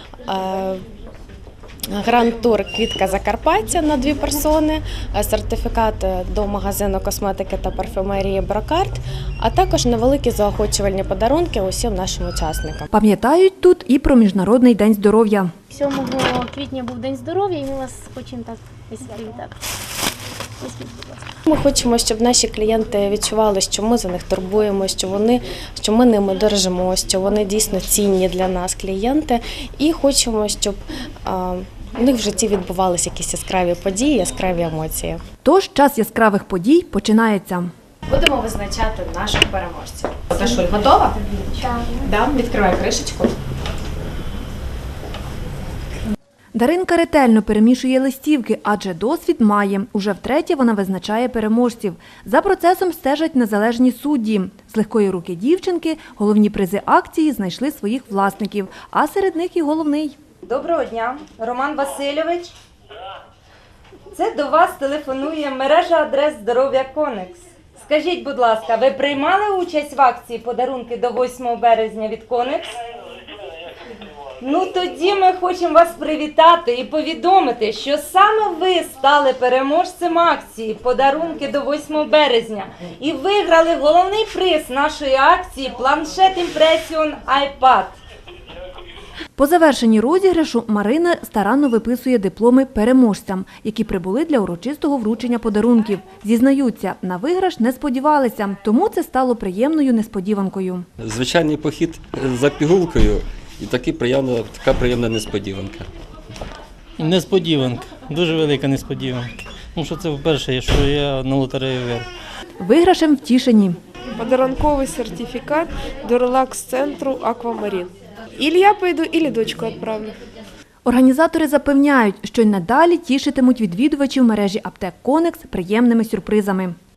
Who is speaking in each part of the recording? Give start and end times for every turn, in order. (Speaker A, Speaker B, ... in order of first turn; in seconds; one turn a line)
Speaker A: 0.3-0.8
Speaker A: 1.9-12.9
Speaker B: 12.9-15.5
Speaker C: 15.7-19.6
Speaker C: 20.6-21.3
Speaker A: 21.5-35.2
Speaker B: 35.4-37.7
Speaker A: 38.1-43.3
Speaker C: 41.6-42.0
Speaker B: 46.5-60.1
Speaker D: 60.5-62.5
Speaker D: 64.1-72.8
Speaker D: 74.4-88.0
Speaker B: 89.3-100.8
Speaker E: 101.0-105.9
Speaker F: 107.0-112.1
Speaker B: 112.6-113.8
Speaker G: 114.2-120.2
Speaker B: 120.8-126.8